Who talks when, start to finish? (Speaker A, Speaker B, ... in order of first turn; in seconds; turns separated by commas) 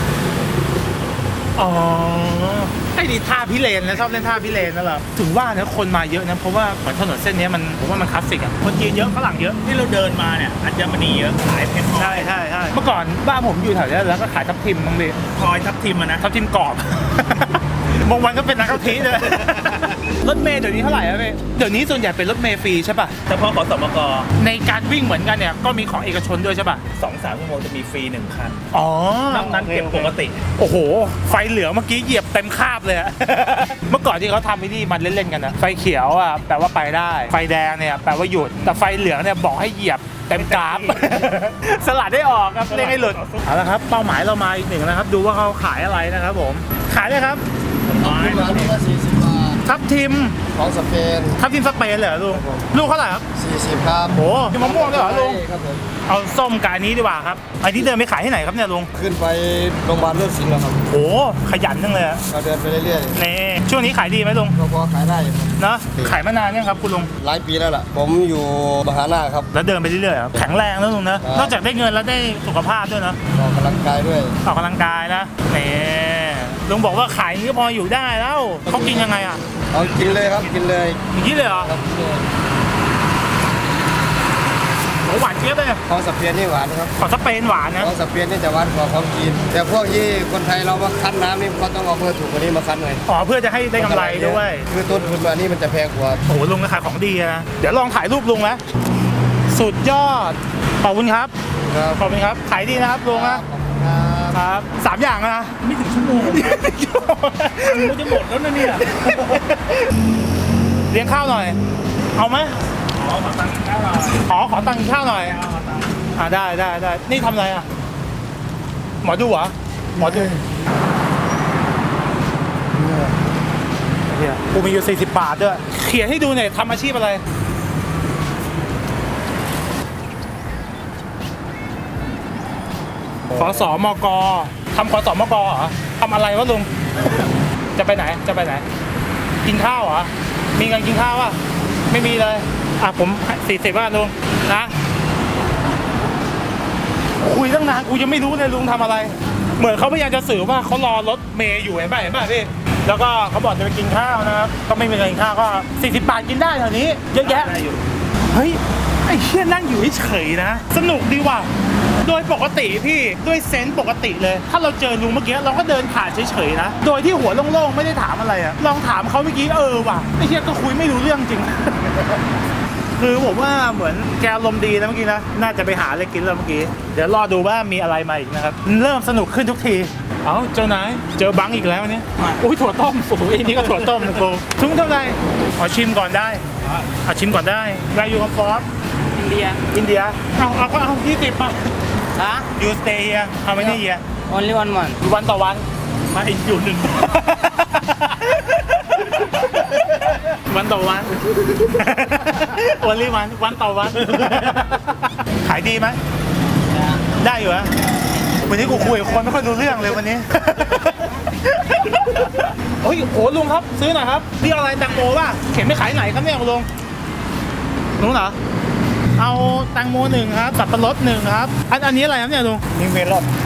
Speaker A: 1.6-9.6, Speaker B: 9.6-12.3, Speaker A: 11.9-15.2, Speaker B: 15.3-16.3, Speaker A: 16.2-23.2, Speaker B: 18.8-20.0, Speaker B: 23.3-24.3, Speaker A: 24.4-26.8, Speaker B: 26.9-28.6, Speaker A: 28.7-47.4, Speaker B: 29.3-30.4, Speaker B: 40.3-41.4, Speaker B: 42.7-43.5, Speaker B: 47.9-48.8, Speaker C: 48.0-49.6, Speaker A: 49.6-50.4, Speaker C: 50.5-51.4, Speaker A: 51.4-53.2, Speaker C: 52.3-52.6, Speaker C: 53.3-55.8, Speaker A: 54.1-55.4, Speaker A: 56.1-58.9, Speaker C: 58.9-60.8, Speaker A: 60.9-62.2, Speaker C: 62.3-63.2, Speaker A: 63.1-64.5, Speaker C: 64.5-66.2, Speaker A: 65.6-67.1, Speaker C: 67.2-69.5, Speaker A: 69.5-73.2, Speaker C: 71.2-71.5, Speaker C: 73.3-74.3, Speaker A: 74.4-79.4, Speaker C: 78.7-82.3, Speaker B: 79.7-80.6, Speaker A: 81.1-81.7, Speaker A: 85.0-85.8, Speaker C: 85.9-86.9, Speaker A: 87.0-87.9, Speaker C: 87.8-93.0, Speaker A: 93.1-94.7, Speaker C: 93.8-96.2, Speaker A: 96.2-98.6, Speaker A: 99.5-101.3, Speaker C: 101.7-102.1, Speaker A: 102.0-103.4, Speaker C: 103.0-104.4, Speaker A: 104.3-105.6, Speaker B: 105.6-106.6, Speaker A: 106.2-108.0, Speaker B: 107.6-109.4, Speaker A: 109.0-109.8, Speaker A: 110.9-111.6, Speaker A: 112.2-112.6, Speaker B: 113.0-114.2, Speaker A: 114.2-115.4, Speaker B: 115.0-115.9, Speaker A: 116.2-117.7, Speaker A: 119.0-120.3, Speaker C: 120.0-120.4, Speaker C: 122.7-123.1, Speaker A: 124.1-127.2, Speaker A: 133.3-136.7, Speaker A: 137.7-138.6, Speaker A: 139.4-141.4, Speaker A: 141.9-144.7, Speaker A: 147.2-157.5, Speaker B: 157.2-157.9, Speaker A: 158.3-161.5, Speaker A: 162.0-172.1, Speaker A: 172.9-186.4, Speaker B: 186.6-186.9, Speaker A: 187.0-188.7, Speaker D: 189.1-189.6, Speaker A: 189.7-191.6, Speaker D: 192.1-192.5, Speaker A: 192.5-194.0, Speaker D: 193.6-195.0, Speaker A: 195.0-195.6, Speaker B: 196.1-197.2, Speaker A: 197.1-198.5, Speaker A: 200.5-206.0, Speaker B: 203.9-204.6, Speaker A: 207.1-207.7, Speaker A: 208.4-216.7, Speaker A: 218.0-218.4, Speaker A: 219.2-222.6, Speaker B: 222.7-223.3